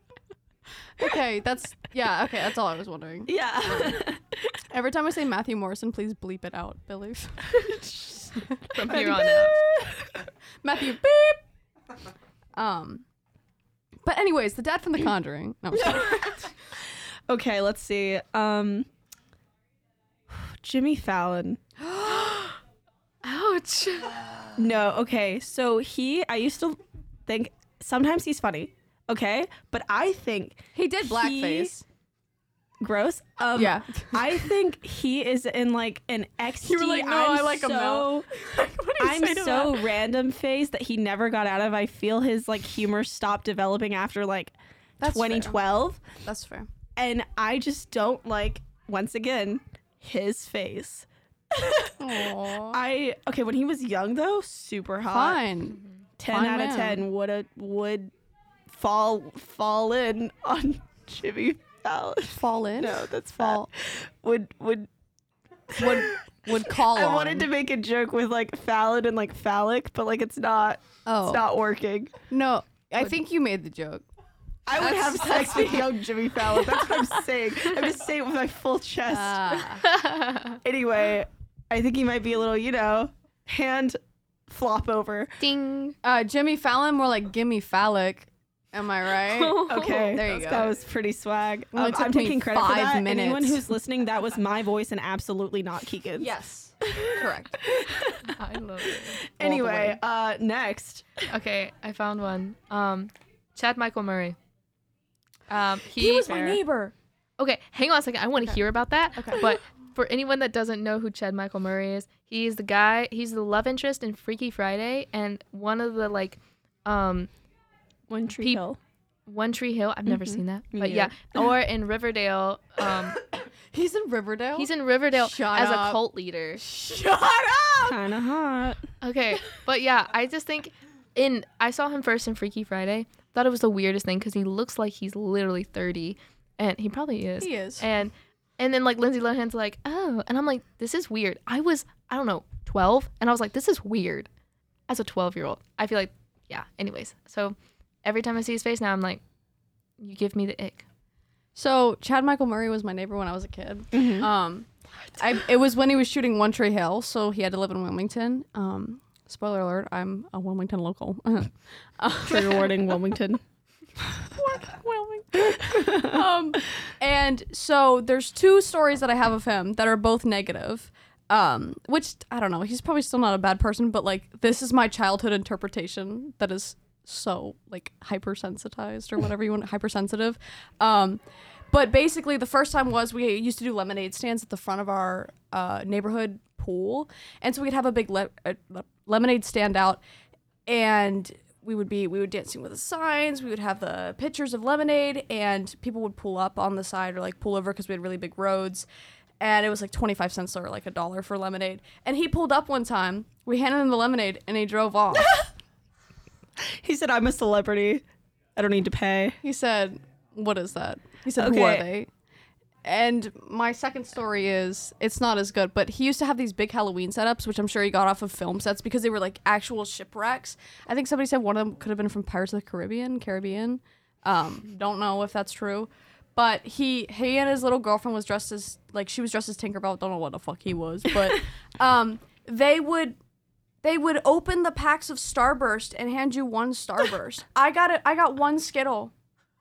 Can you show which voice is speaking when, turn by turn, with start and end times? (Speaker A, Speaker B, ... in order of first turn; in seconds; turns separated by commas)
Speaker A: 1.0-4.0, Speaker B: 3.3-4.6, Speaker A: 4.7-7.9, Speaker B: 7.6-8.1, Speaker C: 8.7-9.5, Speaker B: 8.8-10.2, Speaker A: 10.6-11.4, Speaker A: 12.5-13.0, Speaker A: 14.0-16.4, Speaker B: 15.7-16.4, Speaker B: 17.3-18.9, Speaker B: 20.3-21.6, Speaker C: 21.9-22.6, Speaker C: 23.2-24.3, Speaker B: 24.6-31.7, Speaker A: 30.7-31.8, Speaker B: 32.8-38.3, Speaker A: 33.5-34.4, Speaker A: 36.6-40.0, Speaker B: 39.0-46.1, Speaker A: 45.0-45.6, Speaker A: 46.2-46.7, Speaker B: 47.0-55.4, Speaker A: 52.0-52.8, Speaker A: 55.1-57.0, Speaker B: 56.2-58.1, Speaker B: 58.7-64.9, Speaker A: 62.3-63.7, Speaker B: 65.7-72.2, Speaker A: 65.7-67.5, Speaker A: 71.0-71.5, Speaker A: 72.3-74.0, Speaker B: 74.7-79.6, Speaker A: 74.7-75.9, Speaker A: 79.1-79.8, Speaker C: 79.8-80.6, Speaker B: 80.6-85.4, Speaker C: 85.4-86.0, Speaker A: 86.0-90.8, Speaker C: 89.3-90.2, Speaker B: 89.5-98.3, Speaker A: 91.7-93.7, Speaker A: 96.2-97.6, Speaker C: 98.2-99.3, Speaker B: 99.2-101.1, Speaker A: 99.4-100.0, Speaker C: 101.3-104.4, Speaker C: 105.5-106.6, Speaker A: 106.0-106.9, Speaker C: 107.4-117.3, Speaker A: 109.2-109.5, Speaker B: 118.1-118.8, Speaker C: 119.2-123.2, Speaker B: 120.0-121.5, Speaker A: 123.7-126.0, Speaker C: 124.5-126.6, Speaker A: 126.6-128.0, Speaker B: 127.9-128.8, Speaker C: 129.0-144.3, Speaker A: 137.4-137.9, Speaker C: 144.9-149.2, Speaker C: 150.0-150.8, Speaker A: 151.6-162.8, Speaker B: 153.9-154.3, Speaker B: 162.2-163.4, Speaker A: 164.1-181.2, Speaker B: 165.6-166.2, Speaker A: 181.7-190.0, Speaker A: 190.7-198.9, Speaker A: 199.4-205.5, Speaker B: 206.6-208.0, Speaker B: 208.6-209.4, Speaker A: 209.4-212.1, Speaker B: 211.3-211.9, Speaker A: 212.8-233.2, Speaker A: 233.8-239.1